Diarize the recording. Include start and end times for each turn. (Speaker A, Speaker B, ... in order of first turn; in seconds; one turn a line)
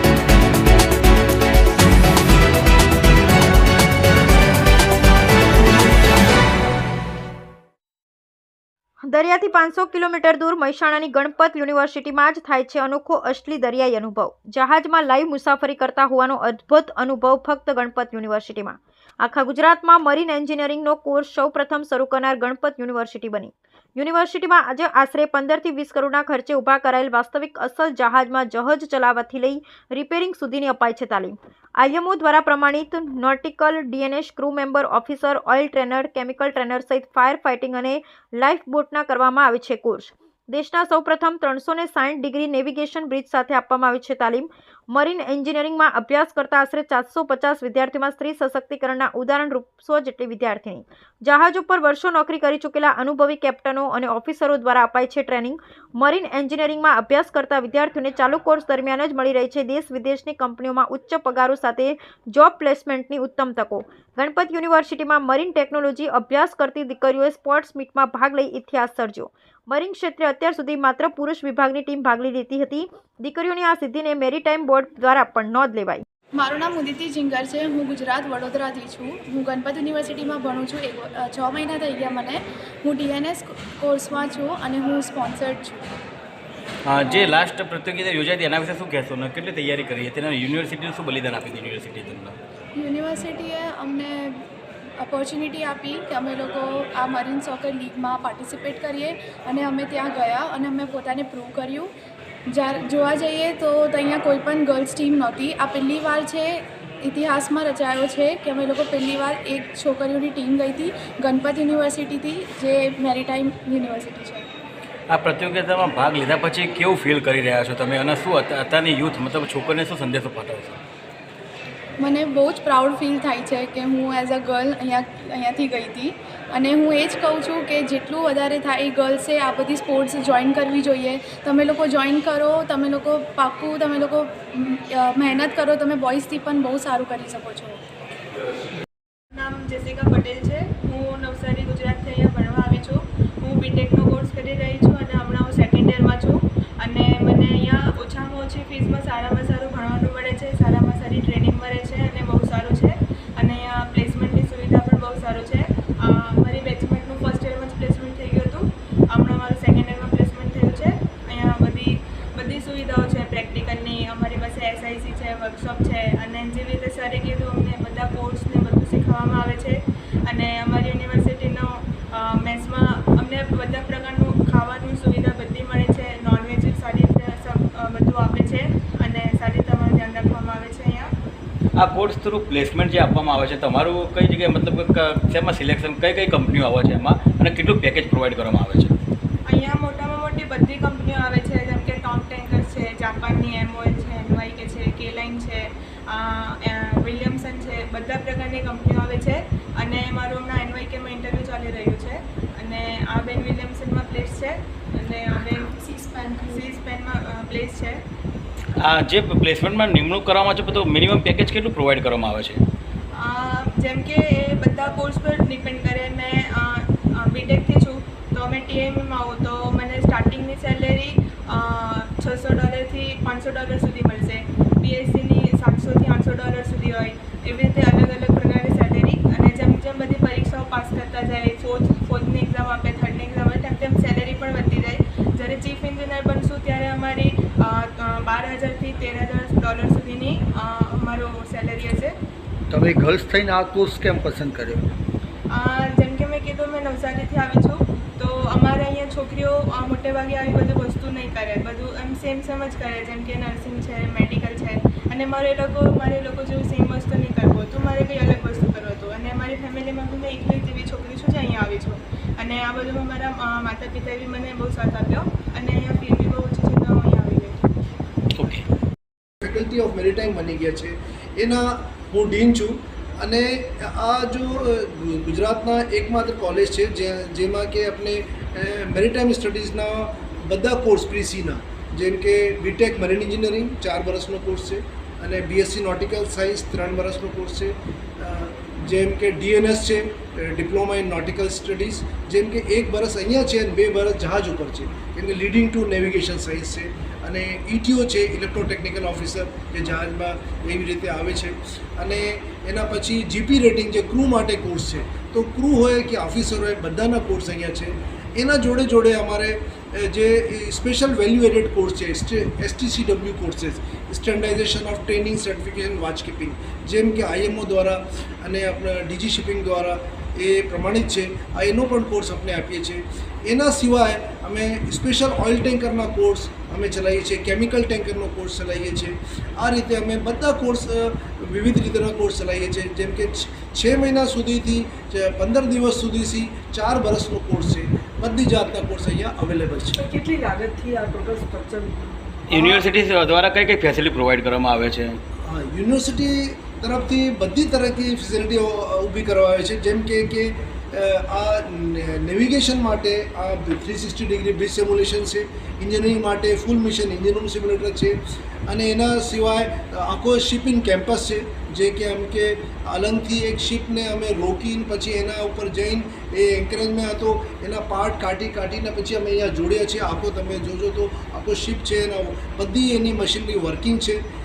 Speaker A: 9.1-76.0
Speaker B: 76.3-85.8
Speaker C: 86.8-92.3
Speaker B: 87.0-87.3
Speaker B: 92.7-94.4
Speaker B: 95.0-101.9
Speaker B: 102.5-114.5
Speaker C: 115.1-120.8
Speaker B: 122.0-137.8
Speaker D: 139.3-181.1
Speaker C: 181.8-188.9
Speaker D: 189.5-205.7
Speaker B: 205.4-206.7
Speaker D: 206.4-208.0
Speaker C: 208.8-212.6
Speaker D: 213.2-242.1
Speaker E: 242.7-244.9
Speaker D: 245.5-267.6
Speaker C: 268.4-268.6
Speaker F: 269.4-340.0
Speaker G: 340.0-342.8
Speaker C: 342.5-345.2
Speaker F: 345.4-358.2
Speaker F: 358.7-374.2